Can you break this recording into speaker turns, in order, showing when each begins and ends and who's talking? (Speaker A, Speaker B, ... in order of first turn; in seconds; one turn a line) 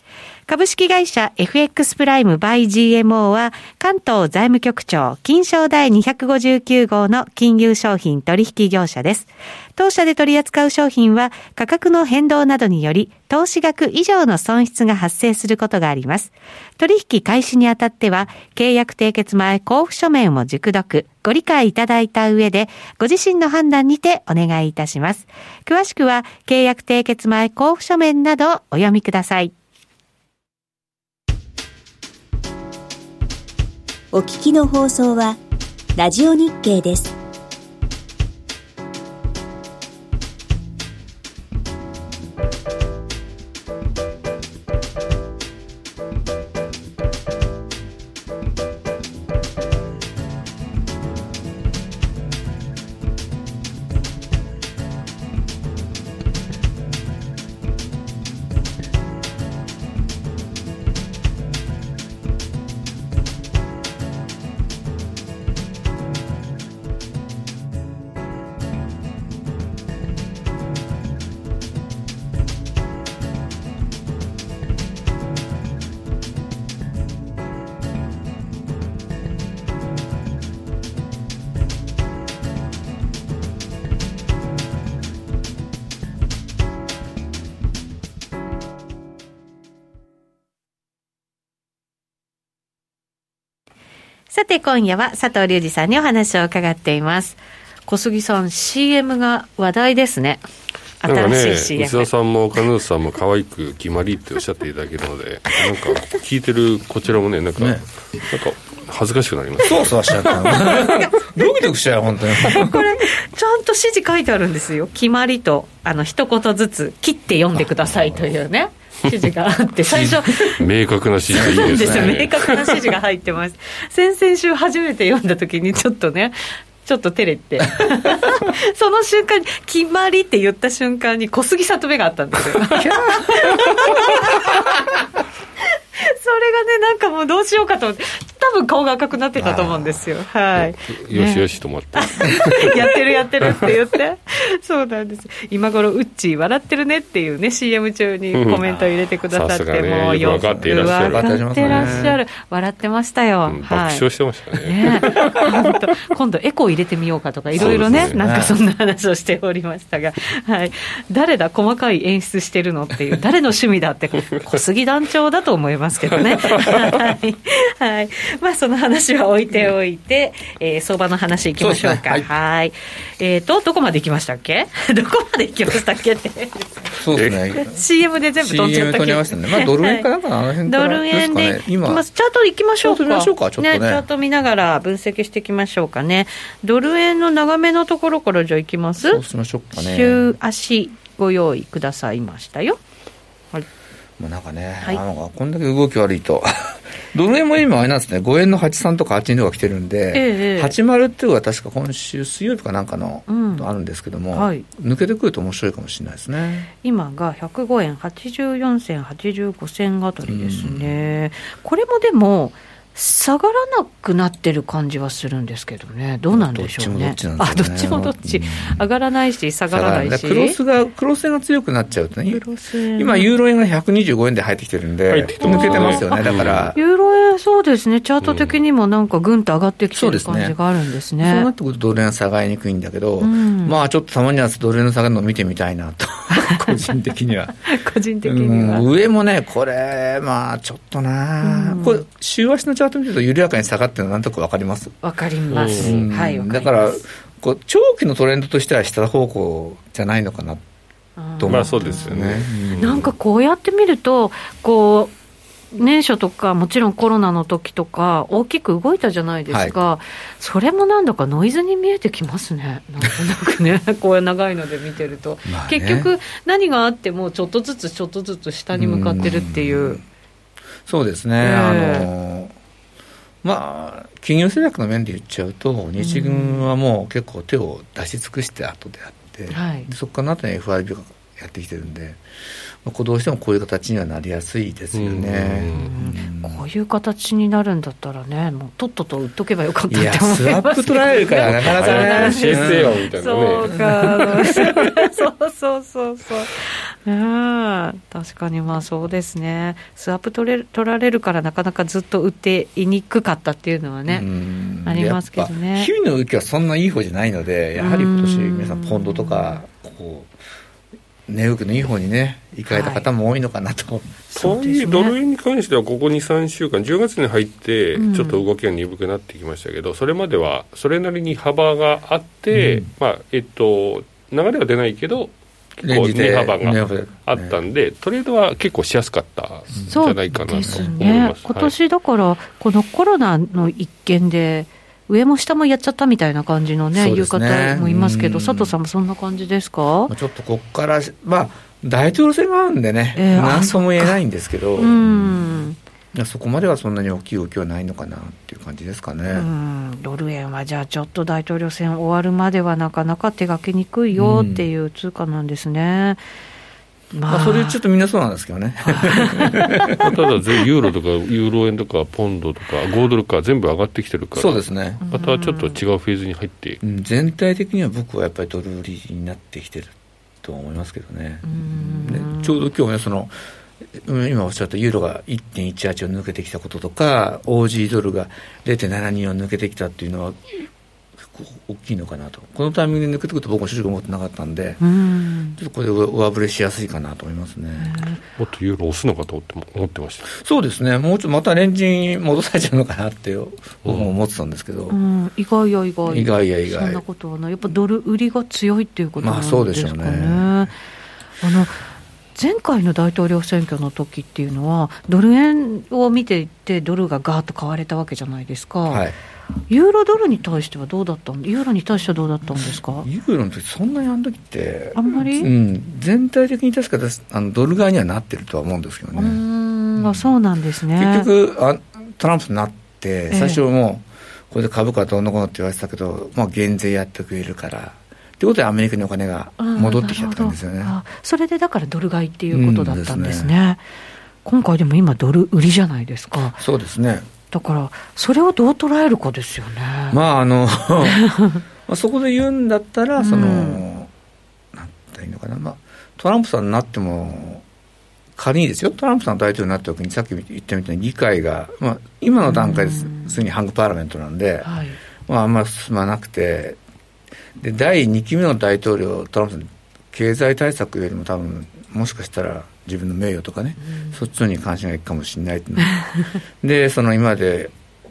Speaker A: 0.5-29.5
Speaker B: 34.1-35.4
Speaker B: 36.0-37.1
Speaker A: 94.3-100.5
Speaker A: 101.0-102.1
Speaker C: 101.0-111.0
Speaker D: 107.6-107.8
Speaker D: 109.6-112.9
Speaker A: 112.5-120.6
Speaker D: 119.9-120.2
Speaker C: 120.0-122.9
Speaker D: 121.3-122.3
Speaker A: 121.4-134.6
Speaker A: 136.0-154.1
Speaker D: 139.4-140.0
Speaker C: 140.6-143.7
Speaker C: 148.3-152.1
Speaker D: 150.2-152.2
Speaker C: 153.5-155.4
Speaker A: 154.6-176.9
Speaker C: 157.5-158.2
Speaker D: 157.6-158.6
Speaker D: 171.6-172.3
Speaker D: 177.0-177.8
Speaker C: 177.1-177.4
Speaker A: 177.6-180.1
Speaker D: 178.4-182.0
Speaker A: 180.7-189.2
Speaker D: 182.8-184.1
Speaker D: 189.0-190.2
Speaker A: 189.7-192.8
Speaker D: 194.2-206.7
Speaker A: 200.1-200.8
Speaker A: 203.3-203.7
Speaker A: 204.3-204.7
Speaker A: 206.8-220.6
Speaker D: 210.3-210.9
Speaker D: 216.3-218.9
Speaker D: 219.7-222.4
Speaker A: 222.3-223.3
Speaker D: 223.0-226.8
Speaker C: 225.1-226.7
Speaker A: 225.4-231.5
Speaker C: 228.2-228.6
Speaker D: 229.9-230.6
Speaker D: 231.2-237.6
Speaker A: 233.2-233.8
Speaker A: 237.7-238.9
Speaker D: 238.2-245.0
Speaker A: 241.4-242.0
Speaker A: 245.0-247.0
Speaker C: 245.5-246.0
Speaker D: 245.6-250.6
Speaker A: 251.2-252.3
Speaker D: 251.4-253.1
Speaker C: 251.5-253.1
Speaker A: 252.8-255.1
Speaker A: 255.7-270.0
Speaker D: 259.5-259.8
Speaker D: 265.5-266.1
Speaker D: 268.7-270.0
Speaker D: 270.9-272.5
Speaker A: 271.4-272.1
Speaker D: 273.4-282.2
Speaker A: 276.0-276.7
Speaker A: 279.5-279.9
Speaker D: 282.8-286.6
Speaker C: 284.9-285.9
Speaker A: 285.7-304.2
Speaker D: 289.9-293.0
Speaker C: 291.4-293.8
Speaker D: 293.6-294.9
Speaker D: 304.1-310.3
Speaker A: 304.9-305.9
Speaker A: 307.8-309.6
Speaker D: 311.3-314.2
Speaker A: 312.7-313.1
Speaker C: 314.4-331.8
Speaker A: 314.4-315.2
Speaker A: 318.0-318.4
Speaker D: 322.5-322.9
Speaker D: 325.8-327.6
Speaker A: 329.9-340.1
Speaker D: 330.5-330.9
Speaker D: 336.9-338.8
Speaker D: 340.1-345.6
Speaker A: 343.1-344.2
Speaker A: 344.8-345.8
Speaker D: 346.1-349.5
Speaker A: 349.3-356.2
Speaker D: 354.1-354.7
Speaker A: 357.1-357.8
Speaker D: 357.3-360.1
Speaker A: 358.9-359.6
Speaker C: 360.0-366.8
Speaker D: 364.4-365.0
Speaker A: 365.0-365.8
Speaker D: 366.8-373.4
Speaker A: 371.4-372.6
Speaker D: 373.9-380.7
Speaker D: 381.2-384.8
Speaker A: 384.8-385.6
Speaker D: 385.6-388.0
Speaker A: 387.8-388.2
Speaker C: 388.4-390.3
Speaker D: 390.3-395.0
Speaker A: 394.9-400.7
Speaker D: 396.1-397.0
Speaker D: 399.2-400.7
Speaker A: 401.4-401.8
Speaker A: 402.4-409.1
Speaker D: 408.9-409.2
Speaker A: 409.7-413.1
Speaker D: 412.5-419.4
Speaker A: 414.9-415.5
Speaker A: 419.1-421.3
Speaker D: 420.0-420.4
Speaker D: 420.9-431.0
Speaker A: 423.3-423.6
Speaker A: 429.6-433.8
Speaker D: 432.5-433.5
Speaker A: 434.4-436.6
Speaker D: 436.6-437.3
Speaker A: 437.5-440.2
Speaker D: 440.1-441.2
Speaker A: 441.0-441.6
Speaker D: 441.9-444.1
Speaker A: 443.2-443.8
Speaker D: 444.7-447.6
Speaker D: 448.4-454.7
Speaker A: 452.4-453.3
Speaker A: 454.6-455.0
Speaker D: 455.3-456.8
Speaker D: 457.6-466.0
Speaker D: 466.6-467.7